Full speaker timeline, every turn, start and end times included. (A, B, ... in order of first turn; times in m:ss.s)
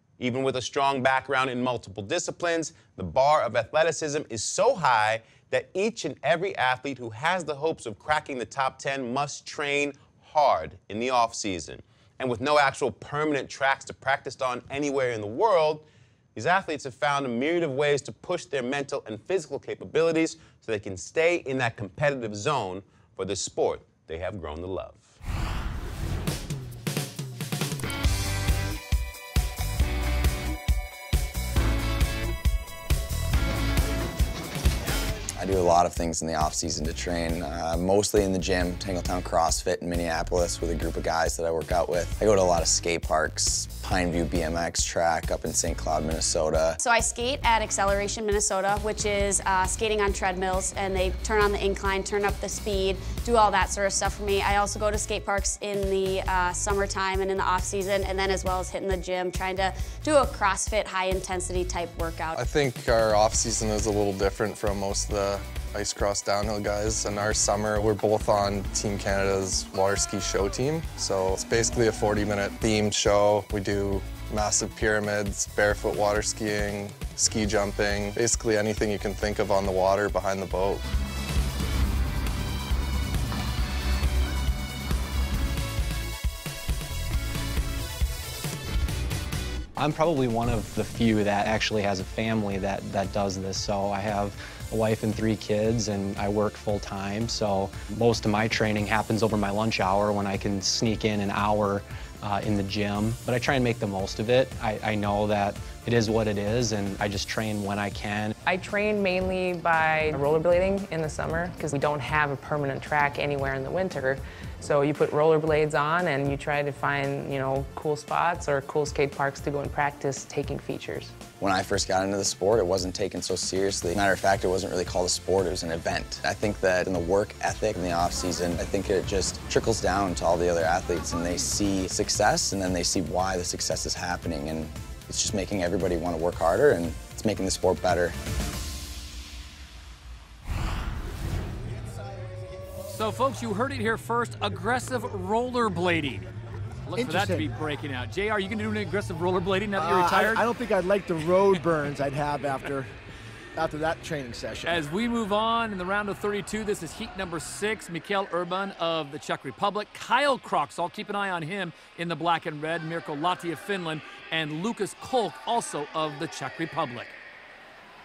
0:00.2-0:25.2 A
0:35.4-0:46.8 B
0:46.8-1:02.4 C
1:02.4-1:20.8 D
1:29.8-1:48.4 E
1:48.5-2:01.2 F
2:01.4-2:18.2 B
2:22.9-2:26.3 G
2:26.9-2:30.4 G
2:27.0-2:27.5 H
2:29.8-2:32.9 H
2:33.6-2:34.8 H
2:34.7-2:47.2 G